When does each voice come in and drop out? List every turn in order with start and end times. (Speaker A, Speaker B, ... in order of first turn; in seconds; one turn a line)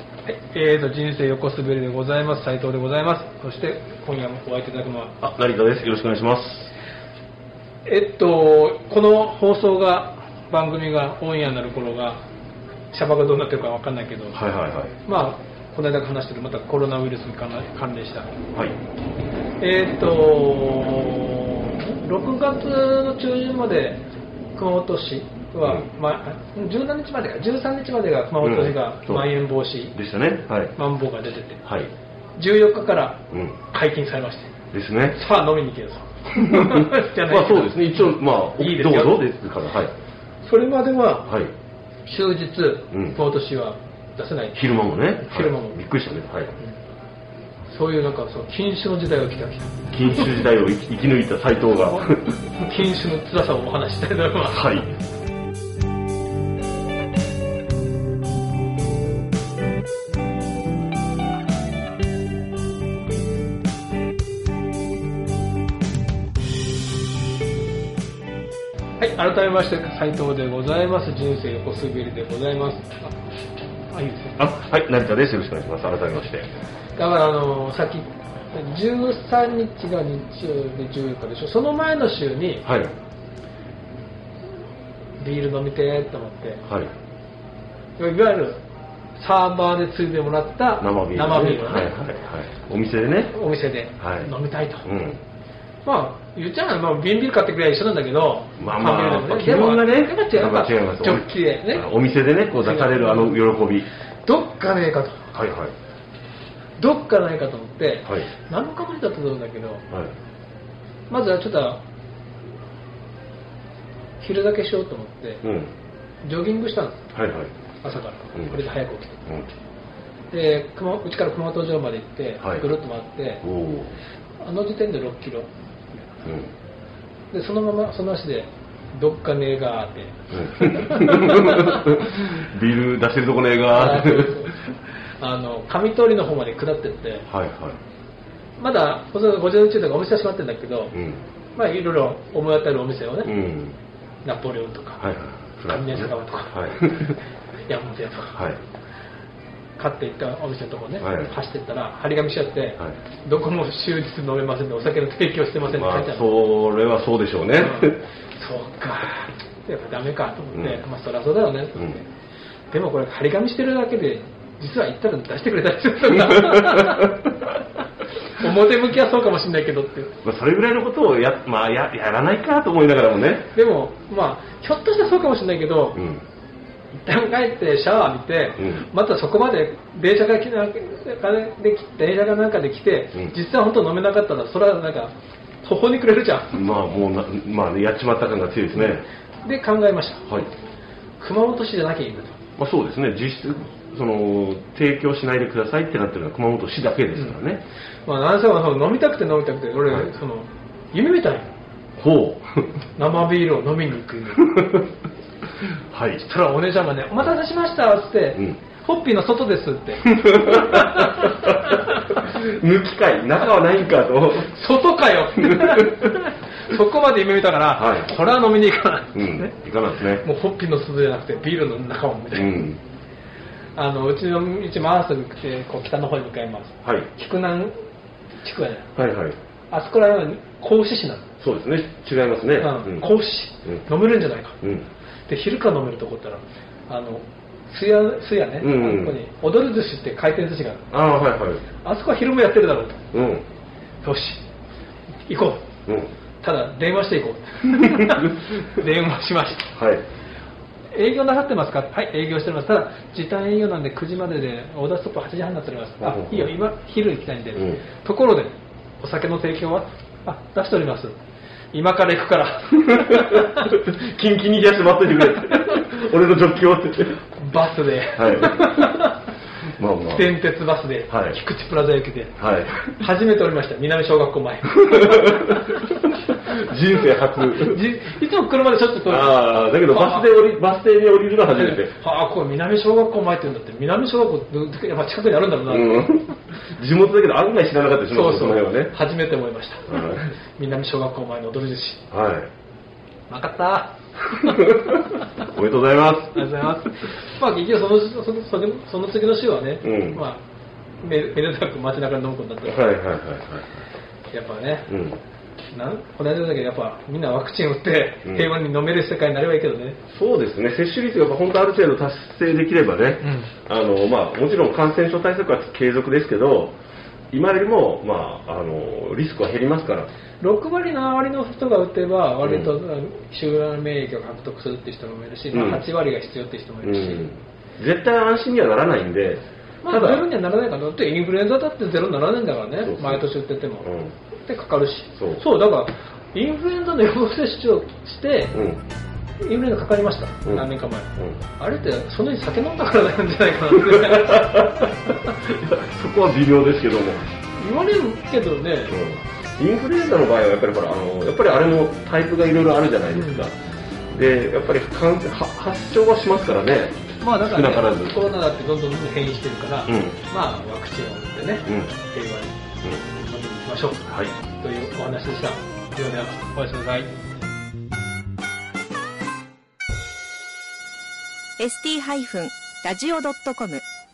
Speaker A: 0.2-5.2
Speaker B: 5.2-6.7
Speaker A: 7.8-12.2
Speaker A: 12.9-14.4
Speaker B: 14.3-14.9
Speaker A: 15.0-18.3
Speaker A: 19.6-24.0
Speaker A: 24.5-30.0
Speaker B: 28.4-29.2
Speaker B: 29.9-30.7
Speaker A: 30.7-31.6
Speaker B: 31.6-31.9
Speaker A: 32.4-34.5
Speaker B: 34.7-35.2
Speaker A: 35.1-39.2
Speaker B: 36.4-39.9
Speaker A: 40.4-41.3
Speaker A: 42.0-44.7
Speaker B: 42.9-43.2
Speaker B: 44.5-46.5
Speaker A: 45.2-45.8
Speaker A: 47.7-50.3
Speaker B: 49.9-52.4
Speaker A: 52.5-54.9
Speaker B: 54.5-54.9
Speaker A: 69.0-73.2
Speaker A: 73.9-74.5
Speaker B: 74.4-76.5
Speaker A: 77.0-82.7
Speaker B: 82.6-82.9
Speaker A: 85.2-86.7
Speaker A: 88.0-88.6
Speaker A: 89.2-91.9
Speaker B: 90.8-93.3
Speaker A: 93.3-94.9
Speaker B: 94.0-94.3
Speaker B: 94.8-95.2
Speaker A: 95.8-101.9
Speaker B: 98.6-103.9
Speaker A: 102.6-103.4
Speaker A: 104.2-105.3
Speaker B: 105.3-105.7
Speaker A: 106.8-109.8
Speaker A: 111.1-111.8
Speaker A: 114.2-115.4
Speaker B: 115.4-115.7
Speaker A: 116.2-117.1
Speaker B: 117.1-117.5
Speaker A: 117.8-119.3
Speaker A: 120.3-123.4
Speaker B: 123.4-123.9
Speaker A: 124.4-126.2
Speaker B: 126.2-126.5
Speaker A: 127.3-132.0
Speaker B: 130.3-134.5
Speaker A: 133.7-137.3
Speaker B: 137.3-137.8
Speaker A: 138.6-140.9
Speaker B: 140.9-141.2
Speaker A: 141.6-143.3
Speaker B: 143.2-143.8
Speaker A: 144.2-145.0
Speaker B: 145.0-147.2
Speaker A: 145.7-147.2
Speaker A: 147.7-148.4
Speaker A: 149.8-156.3
Speaker B: 151.0-151.3
Speaker B: 155.7-158.0
Speaker A: 157.6-162.1
Speaker A: 162.7-167.5
Speaker A: 168.2-170.1
Speaker B: 170.2-173.5
Speaker A: 173.5-176.0
Speaker B: 175.9-176.2
Speaker A: 176.9-186.5
Speaker B: 178.6-178.8
Speaker B: 186.5-189.0
Speaker A: 189.4-190.3
Speaker A: 191.2-192.3
Speaker B: 192.6-197.6
Speaker A: 198.1-201.5
Speaker B: 202.0-202.7
Speaker A: 202.9-204.8
Speaker B: 204.5-204.8
Speaker B: 205.9-206.2
Speaker A: 206.2-212.2
Speaker B: 210.2-214.5
Speaker A: 214.4-219.5
Speaker B: 215.3-216.1
Speaker B: 217.8-218.1
Speaker B: 219.1-220.2
Speaker A: 220.2-222.7
Speaker B: 222.3-222.8
Speaker A: 223.8-227.7
Speaker B: 226.8-227.1
Speaker A: 228.4-228.9
Speaker B: 228.9-229.3
Speaker A: 229.7-231.3
Speaker B: 231.4-233.1
Speaker A: 232.6-234.6
Speaker B: 234.6-234.9
Speaker A: 235.3-240.9
Speaker B: 238.6-239.2
Speaker B: 240.9-241.6
Speaker A: 241.8-243.1
Speaker B: 243.1-243.4
Speaker A: 244.0-244.4
Speaker A: 245.3-245.6
Speaker A: 246.4-249.7
Speaker B: 249.7-250.0
Speaker A: 250.9-261.1
Speaker B: 256.0-256.5
Speaker A: 261.7-263.8
Speaker B: 262.9-267.2
Speaker A: 265.5-265.8
Speaker A: 267.4-269.2
Speaker B: 268.1-268.9
Speaker B: 269.8-270.3
Speaker A: 270.1-275.9
Speaker B: 271.1-271.4
Speaker B: 272.4-272.9
Speaker B: 274.9-277.8
Speaker A: 277.6-280.3
Speaker B: 279.0-281.9
Speaker A: 281.5-286.3
Speaker B: 285.7-288.9
Speaker A: 288.1-292.1
Speaker B: 289.9-290.2
Speaker B: 292.1-292.5
Speaker A: 293.3-295.3
Speaker B: 294.5-296.5
Speaker A: 296.3-300.4
Speaker B: 299.8-300.2
Speaker A: 301.0-302.9
Speaker B: 302.6-303.8
Speaker A: 304.3-304.9
Speaker B: 304.9-305.2
Speaker A: 305.7-310.0
Speaker B: 310.1-316.7
Speaker A: 313.2-313.5
Speaker B: 317.3-320.1
Speaker A: 320.4-327.3
Speaker B: 322.4-322.7
Speaker B: 325.5-325.8
Speaker B: 326.8-330.2
Speaker A: 329.8-333.9
Speaker B: 332.8-333.2
Speaker B: 333.8-334.1
Speaker A: 334.4-338.6
Speaker B: 335.2-335.4
Speaker B: 338.5-338.8
Speaker A: 339.4-345.3
Speaker B: 340.4-341.4
Speaker B: 343.9-344.9
Speaker B: 345.5-347.2
Speaker A: 347.6-349.1
Speaker B: 348.9-353.5
Speaker A: 353.1-353.4
Speaker B: 354.1-358.2
Speaker A: 357.2-367.1
Speaker B: 359.9-360.2
Speaker B: 361.6-361.9
Speaker B: 364.1-364.3
Speaker C: 371.6-373.8